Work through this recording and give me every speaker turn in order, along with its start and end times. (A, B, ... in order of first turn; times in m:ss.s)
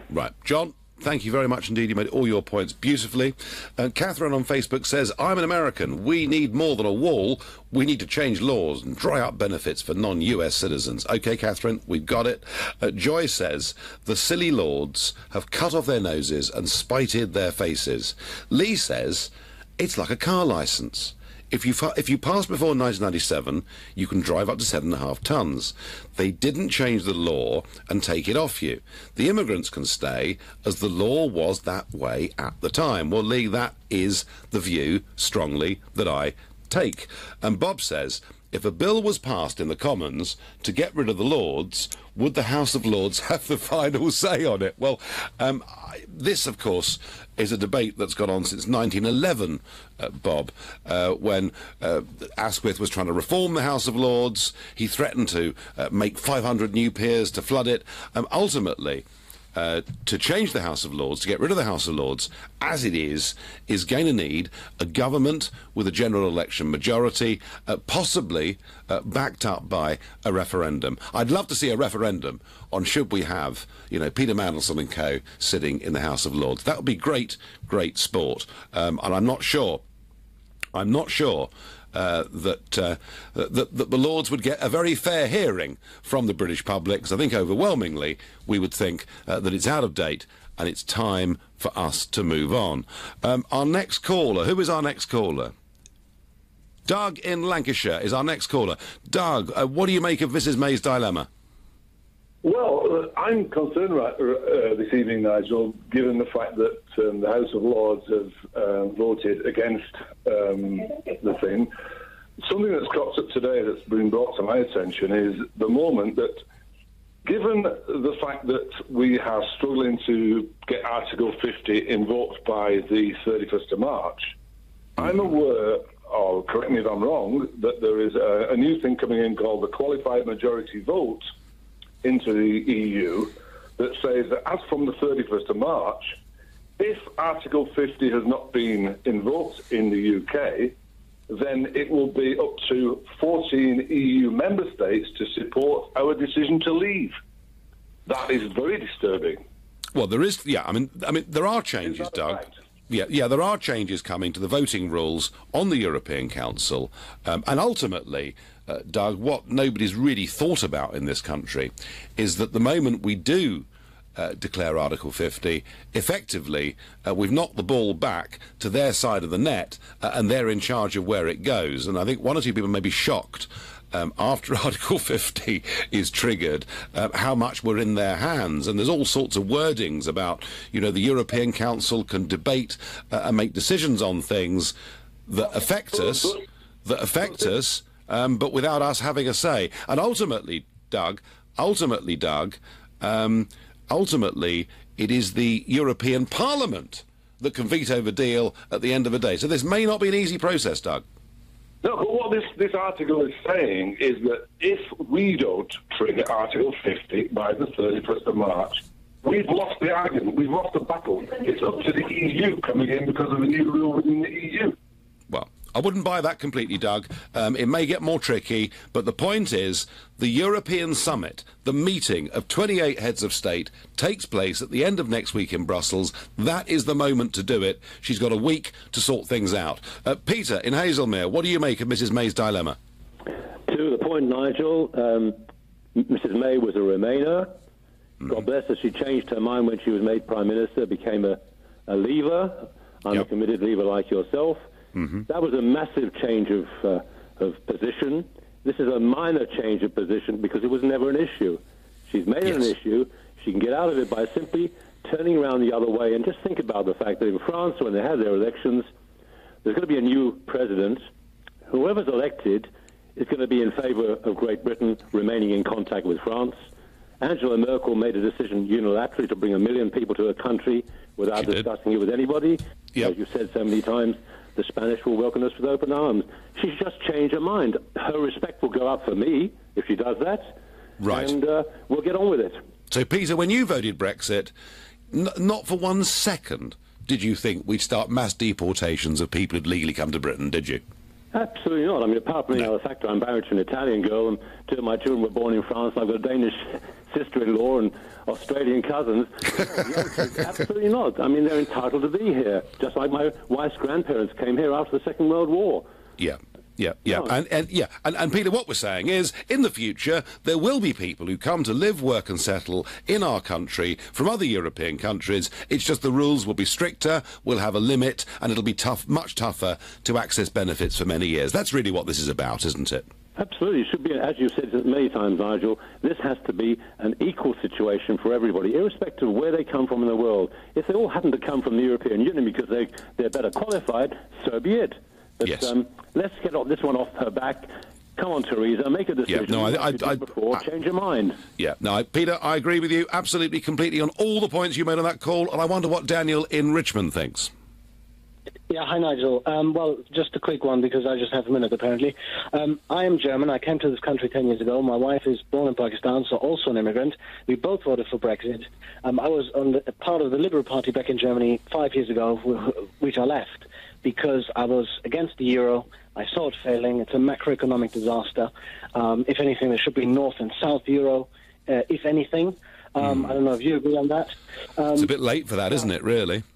0:00.1-1:19.8 A
1:20.7-1:35.5 A
1:36.8-1:41.3 A
1:42.4-1:51.7 B
1:52.4-1:56.4 B
1:57.2-2:04.3 B
2:05.0-2:11.2 B
2:12.0-2:16.1 B
2:16.8-2:20.7 B
2:21.3-2:27.2 B
2:28.0-2:29.4 B
2:29.9-3:04.7 A
2:32.0-2:32.5 B
3:05.3-3:21.0 A
3:21.8-3:34.8 B
3:35.3-3:52.8 A
3:53.7-3:55.4 C
3:56.0-3:57.5 C
3:58.3-4:04.6 C
4:05.3-4:18.9 C
4:12.4-4:12.7 A
4:19.6-4:21.1 C
4:21.7-4:26.6 C
4:27.2-4:42.6 C
4:31.3-4:31.7 A
4:41.0-4:41.3 A
4:42.9-4:44.5 A
4:45.1-4:50.8 A
4:51.3-5:05.8 C
5:06.2-5:23.1 A
5:07.0-5:07.3 C
5:23.4-5:41.4 C
5:35.4-5:35.7 A
5:39.3-5:40.6 A
5:41.6-5:47.5 A
5:48.7-6:15.1 D
6:14.9-6:16.4 A